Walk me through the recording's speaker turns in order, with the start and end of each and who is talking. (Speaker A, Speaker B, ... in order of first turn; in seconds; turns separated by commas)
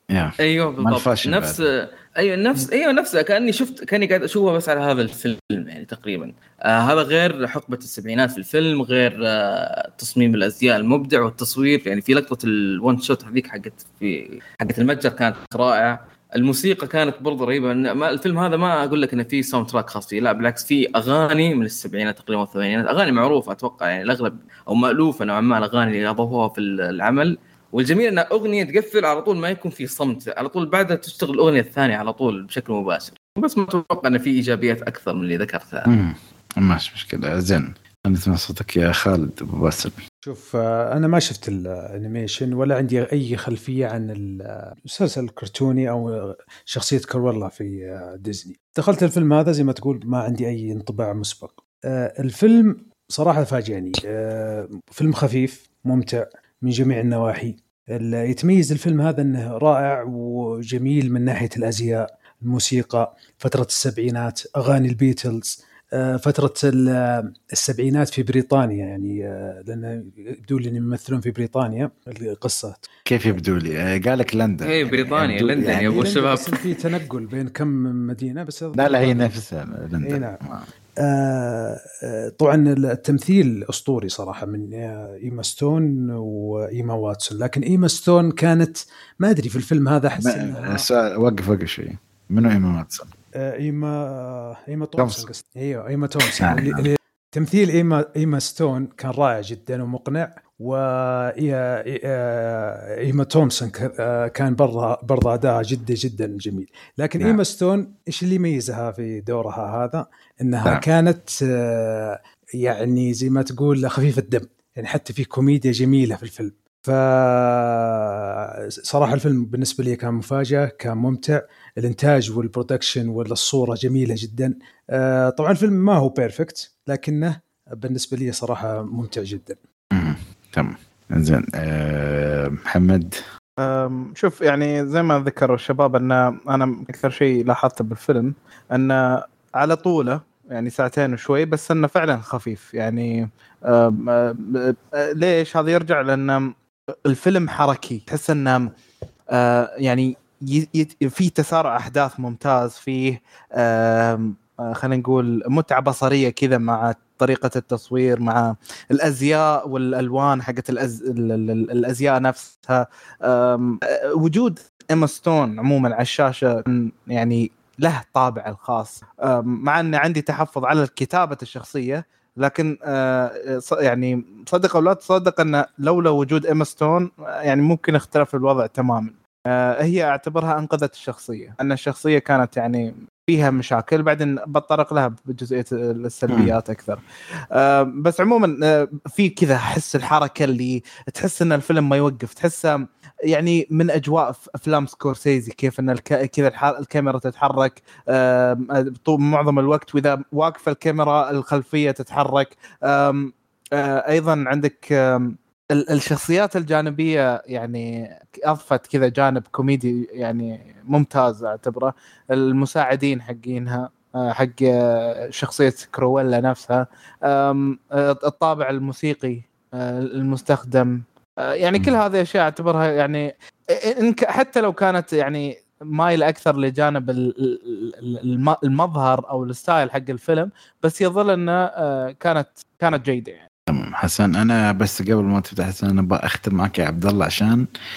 Speaker A: 0.1-1.6, Speaker B: 0.4-35.9, Speaker A: 35.9-40.0, Speaker C: 40.2-72.8, Speaker A: 73.1-76.1, Speaker B: 74.6-76.6, Speaker C: 75.8-79.3, Speaker A: 78.7-80.7, Speaker C: 80.0-80.4, Speaker C: 81.0-90.8, Speaker A: 90.2-93.1, Speaker C: 93.3-118.1, Speaker A: 95.0-95.3, Speaker A: 96.2-96.9, Speaker C: 118.9-129.6, Speaker A: 129.9-133.1, Speaker D: 133.6-143.1, Speaker D: 143.7-146.5, Speaker D: 147.1-148.7, Speaker D: 149.3-187.0, Speaker D: 187.5-188.5, Speaker D: 189.1-221.0, Speaker D: 221.5-233.4, Speaker A: 233.7-237.7